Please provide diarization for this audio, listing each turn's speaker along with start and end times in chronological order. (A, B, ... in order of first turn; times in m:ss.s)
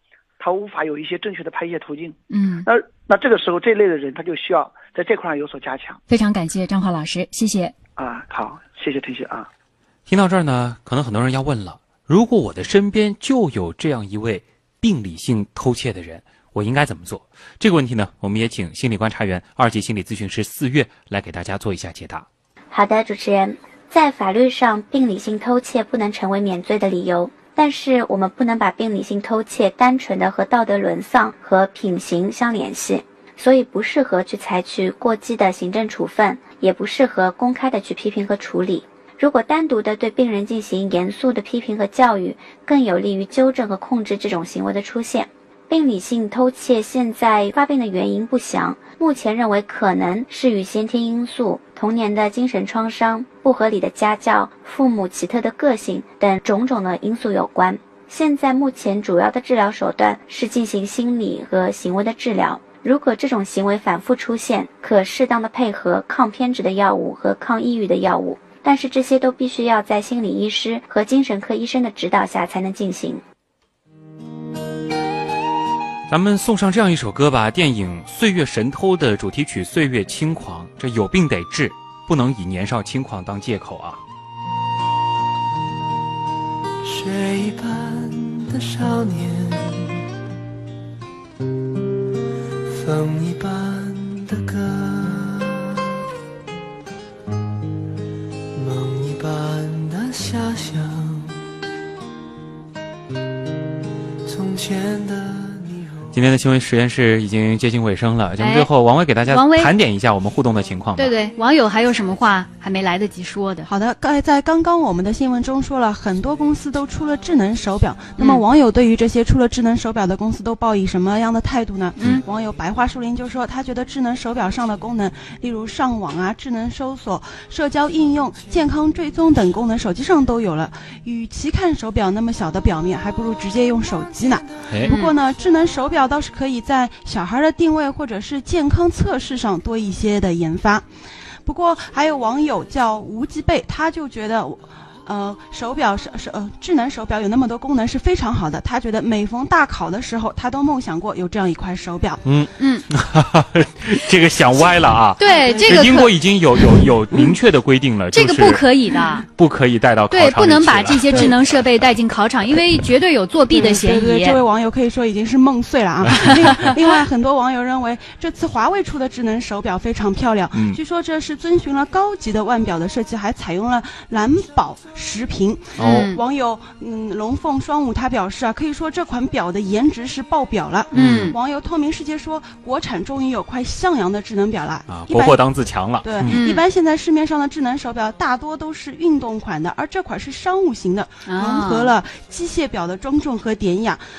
0:00.4-0:06.0 A
0:02.3-0:02.7 B
0:06.1-0:07.7 B
0:08.0-0:09.5 A
0:10.1-0:22.2 C
0:22.7-1:13.2 D
1:16.1-1:24.0 C
1:26.8-1:29.9 E
1:32.7-1:35.7 E
1:38.5-1:41.3 E
1:44.2-1:46.0 E
1:46.1-1:51.1 C
1:48.4-1:48.7 B
1:49.2-1:49.7 B
1:50.9-1:53.7 B
1:53.8-2:14.4 F
1:58.2-1:58.4 B
2:14.8-2:15.2 B
2:15.0-2:20.8 F
2:21.5-2:32.2 F
2:32.2-2:38.6 C
2:32.6-2:32.9 B
2:35.2-2:37.4 B
2:35.4-2:35.7 F
2:38.1-2:39.2 B
2:39.3-2:41.3 C
2:40.1-2:44.4 B
2:43.5-2:55.6 F
2:46.1-2:47.0 B
2:50.5-2:50.8 C
2:55.8-2:56.1 C
2:55.8-2:56.2 B
2:56.1-3:05.4 F
3:00.9-3:01.4 C
3:01.0-3:01.3 B
3:04.9-3:06.4 C
3:06.0-3:14.0 F
3:06.3-3:06.7 B
3:11.2-3:12.0 B